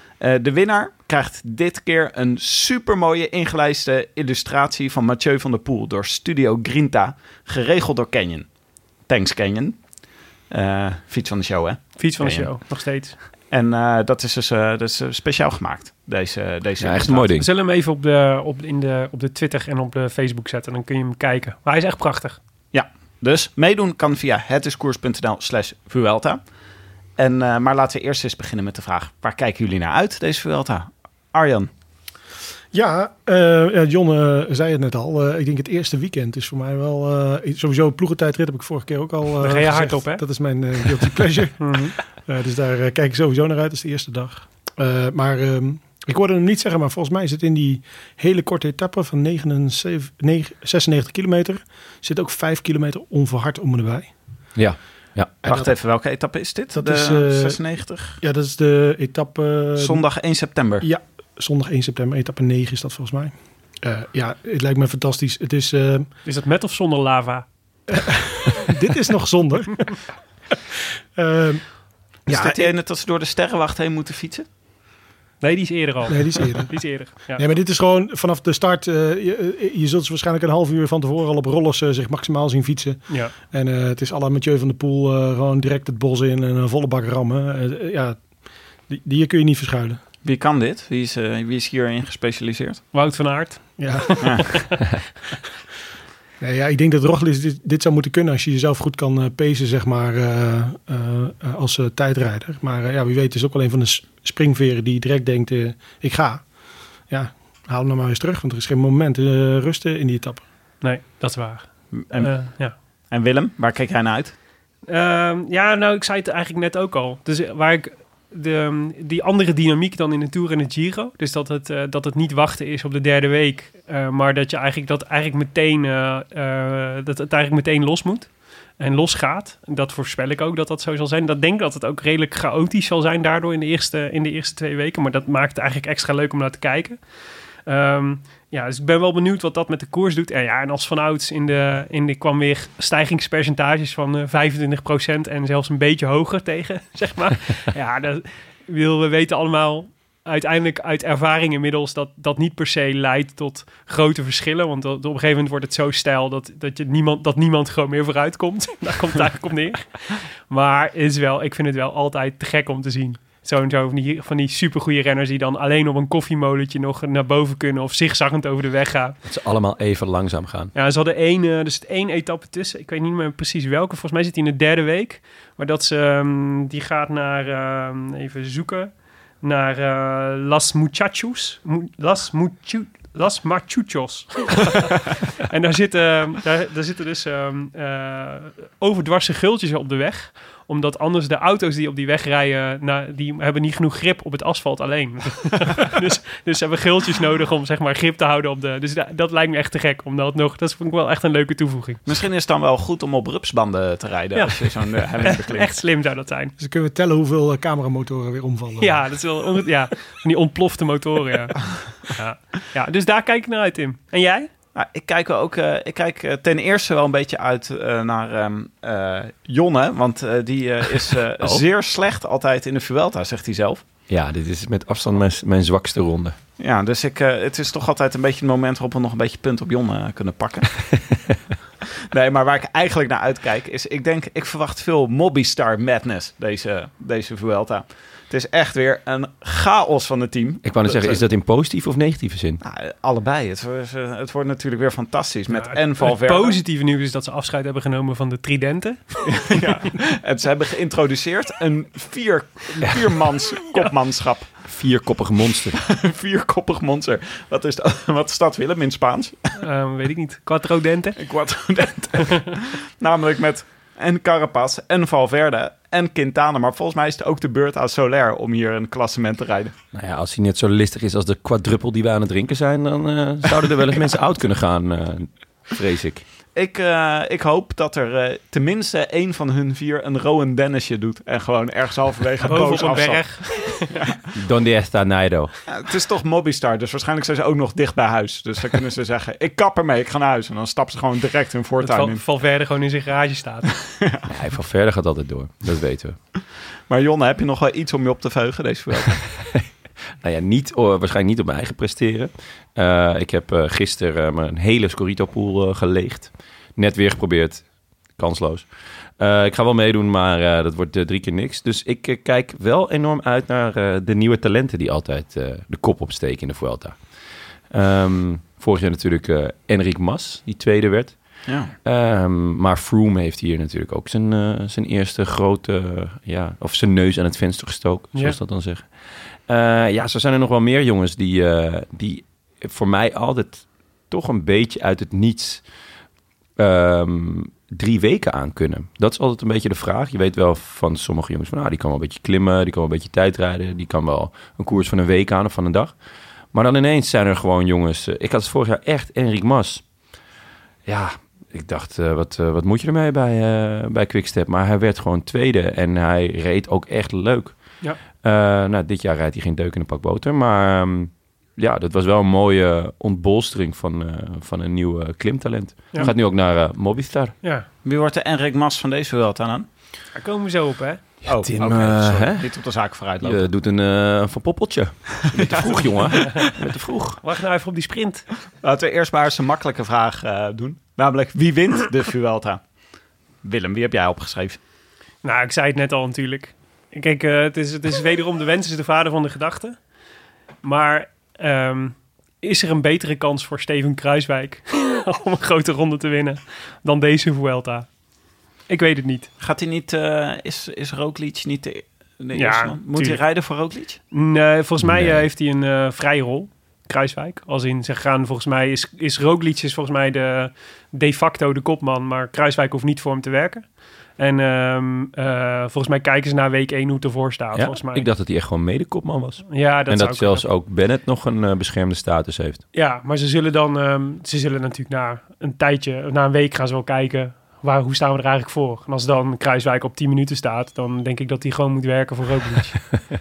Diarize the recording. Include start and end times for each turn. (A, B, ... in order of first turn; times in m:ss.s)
0:00.2-0:08.5 A
0:09.1-0:09.8 A
0:10.5-0:12.5 A
0:12.0-0:13.2 B
0:13.5-0:17.4 A
0:16.8-0:17.5 C
0:17.4-0:22.4 B
0:22.7-0:26.4 A
0:27.2-0:31.7 A
0:32.7-0:54.1 D
0:39.4-0:40.2 B
0:41.6-0:42.0 B
0:54.6-0:55.4 C
0:55.4-0:55.8 D
0:55.5-0:58.2 A
0:56.7-0:57.6 D
0:58.2-1:00.0 D
0:59.8-1:00.9 A
1:00.8-1:06.1 D
1:06.2-1:07.5 B
1:07.9-1:10.0 D
1:11.2-1:11.7 D
1:12.3-1:12.7 D
1:12.3-1:14.5 A
1:15.4-1:17.4 B
1:16.1-1:28.2 D
1:28.9-1:30.0 D
1:30.2-1:32.8 A
1:32.9-1:34.8 B
1:33.8-1:34.6 D
1:36.4-1:46.4 D
1:47.1-1:50.4 D
1:50.8-1:52.8 B
1:52.0-1:52.3 A
1:53.1-1:54.3 A
1:54.9-2:17.0 B
2:17.7-2:49.2 B
2:49.2-2:50.7 C
2:50.7-3:22.0 B
3:22.1-3:25.7 A
3:24.4-3:26.5 B
3:26.6-3:29.2 D
3:28.8-3:34.5 B
3:34.8-3:43.8 A
3:44.1-3:46.4 C
3:46.6-3:50.8 A
3:52.1-4:01.2 A
4:00.6-4:02.6 C
4:02.6-4:06.6 A
4:05.5-4:09.6 B
4:09.3-4:14.5 A
4:14.7-4:15.8 C
4:15.8-4:19.5 A
4:19.6-4:21.2 B
4:21.2-4:29.7 A
4:29.9-4:36.2 C
4:36.5-4:44.3 A
4:42.4-4:43.9 B
4:44.3-4:45.5 C
4:45.7-4:52.2 A
4:51.8-4:53.7 B
4:53.9-4:54.3 A
4:54.3-4:56.2 C
4:56.9-4:59.2 A
5:00.2-5:07.6 C
5:08.2-5:08.7 C
5:09.2-5:17.0 C
5:17.7-5:28.9 C
5:21.5-5:21.7 A
5:29.5-5:35.6 C
5:36.6-5:45.9 C
5:46.5-5:49.8 C
5:50.9-5:57.6 C
5:58.2-6:07.4 C
6:07.8-6:09.7 A
6:10.1-6:11.3 B
6:11.3-6:13.4 A
6:11.4-6:12.5 C
6:13.2-6:17.2 C
6:15.4-6:16.4 A
6:16.2-6:16.5 B
6:17.2-6:18.3 B
6:18.6-6:22.6 A
6:23.4-6:24.6 A
6:25.2-6:29.8 B
6:30.6-6:37.9 B
6:38.7-6:39.3 B
6:39.4-6:44.0 A
6:42.3-6:43.2 B
6:44.1-6:58.1 B
6:44.8-6:45.2 C
6:57.6-7:02.6 C
6:59.5-7:00.5 B
7:02.7-7:12.8 B